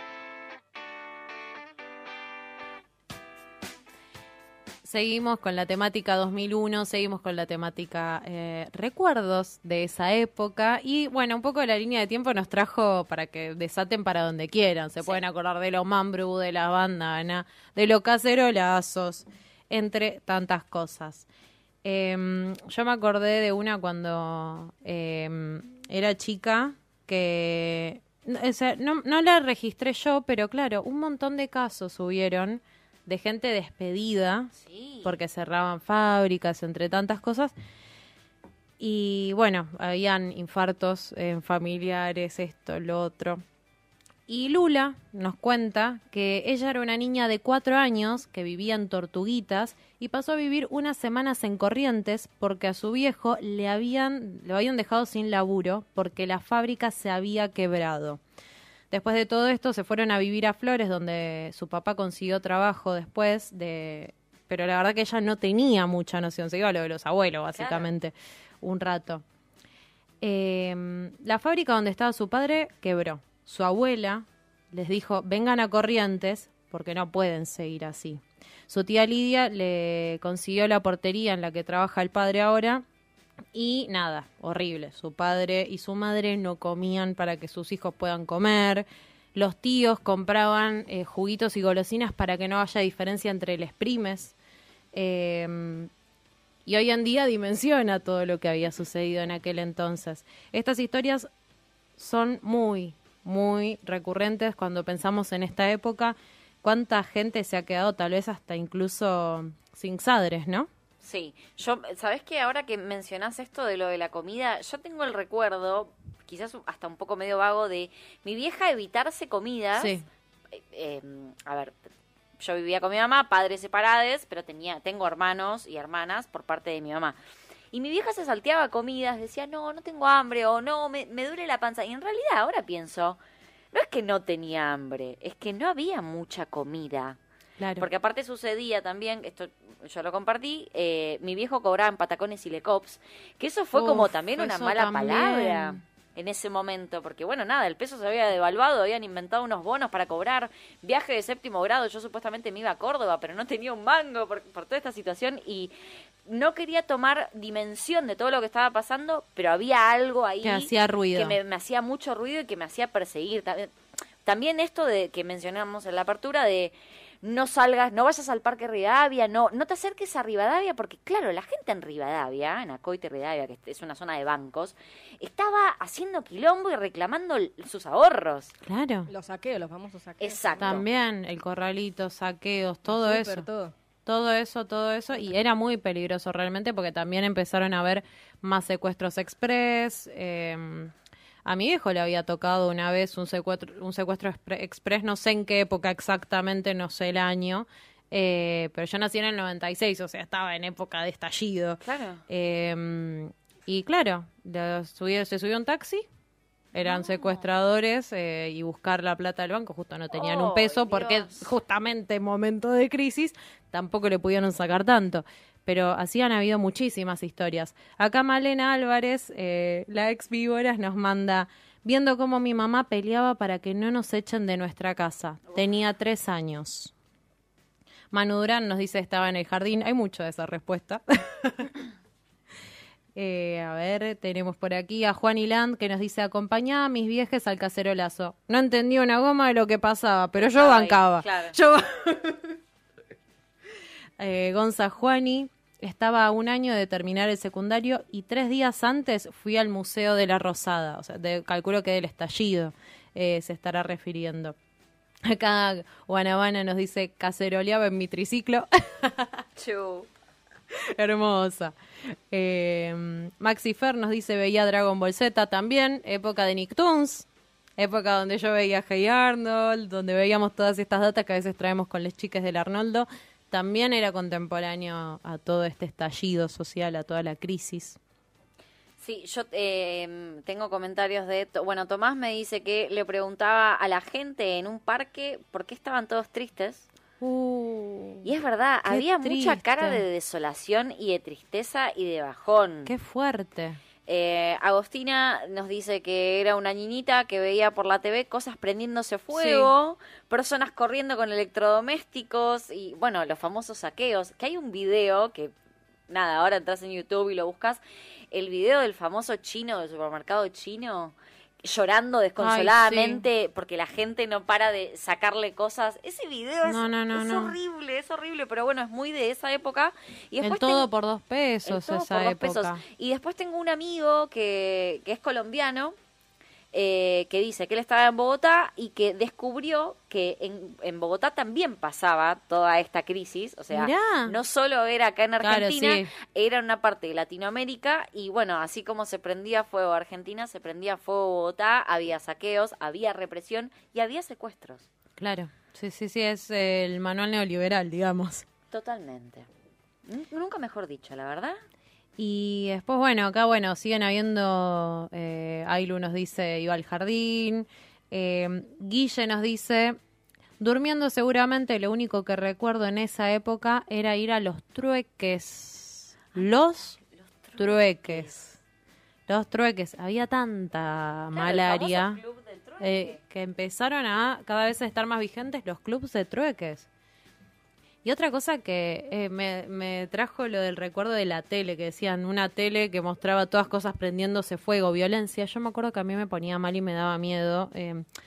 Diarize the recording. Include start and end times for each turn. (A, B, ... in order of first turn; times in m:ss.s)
0:04.8-0:21.3 A
0:21.8-0:34.5 A
0:34.6-0:35.2 B
0:35.0-0:37.5 A
0:38.8-0:43.4 A
0:44.3-0:58.2 A
0:58.9-1:09.2 A
1:07.6-1:07.9 B
1:10.2-1:22.8 A
1:23.5-1:34.3 A
1:34.9-1:35.9 A
1:36.6-1:41.3 A
1:42.0-1:50.7 A
1:51.0-2:00.0 B
1:59.8-2:00.0 A
2:00.6-2:01.8 B
2:02.4-2:07.2 B
2:07.7-2:13.2 B
2:13.7-2:17.2 B
2:17.6-2:17.9 A
2:17.8-2:35.7 B
2:23.8-2:25.8 A
2:36.3-2:43.7 B
2:40.4-2:41.4 A
2:44.2-2:58.5 B
2:58.6-2:59.1 A
2:59.1-3:00.9 C
3:00.2-3:00.8 B
3:00.6-3:03.5 A
3:02.9-3:03.7 C
3:04.1-3:10.9 A
3:11.4-3:26.1 A
3:21.8-3:22.2 B
3:26.7-3:46.9 A
3:26.8-3:27.5 B
3:30.2-3:31.5 B
3:48.1-3:51.7 A
3:53.2-4:02.4 A
4:00.4-4:01.6 B
4:04.2-4:14.6 A
4:15.2-4:19.4 A
4:19.6-4:20.1 B
4:20.9-4:27.3 A
4:27.8-4:38.0 A
4:39.0-4:46.9 B
4:47.2-4:48.3 A
4:48.2-4:52.9 B
4:48.9-4:50.0 A
4:52.9-4:53.8 A
4:54.1-5:05.5 B
4:59.3-4:59.7 A
5:06.1-5:07.8 B
5:08.3-5:20.9 B
5:12.4-5:13.2 A
5:16.6-5:17.6 A
5:20.4-5:22.8 A
5:21.6-5:26.0 B
5:26.7-5:44.9 B
5:33.7-5:34.4 A
5:35.4-5:36.1 A
5:45.2-5:48.5 A
5:48.7-5:49.5 B
5:50.1-5:51.6 B
5:52.2-6:00.0 A
6:00.6-6:07.0 A
6:07.0-6:08.4 B
6:07.6-6:08.6 A
6:09.3-6:12.2 A
6:11.4-6:13.2 B
6:12.8-6:16.9 A
6:18.0-6:28.1 A